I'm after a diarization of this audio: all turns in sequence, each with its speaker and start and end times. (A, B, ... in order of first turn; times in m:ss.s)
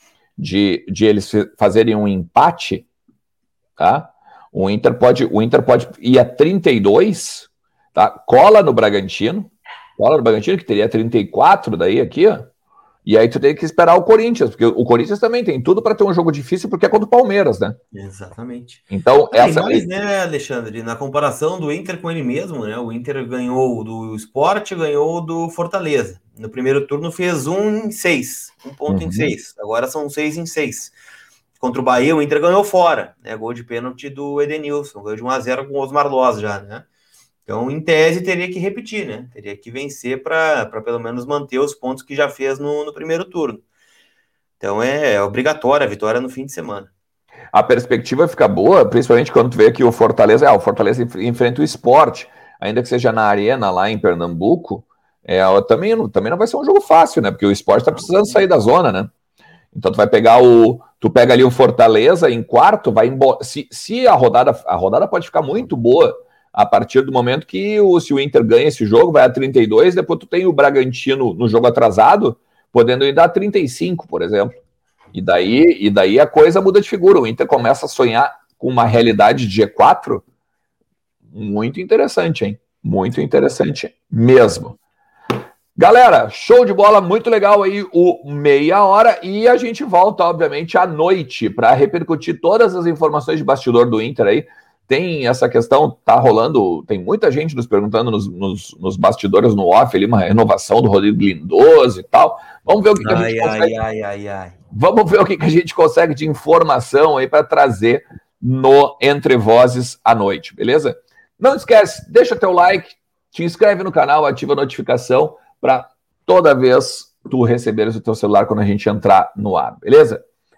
0:00.4-0:02.9 A
0:03.8-0:12.5 A
0:13.0-0:17.8 A
0:17.9-0:30.9 B
0:18.9-0:19.8 A
0:28.9-0:29.3 A
0:31.6-0:36.8 B
0:37.4-0:43.6 B
0:44.6-0:46.9 B
0:47.5-0:59.1 A
0:59.7-1:14.6 A
1:15.1-1:20.2 A
1:21.3-1:24.8 A
1:25.8-1:43.7 A
1:43.0-1:44.6 B
1:44.7-2:00.2 A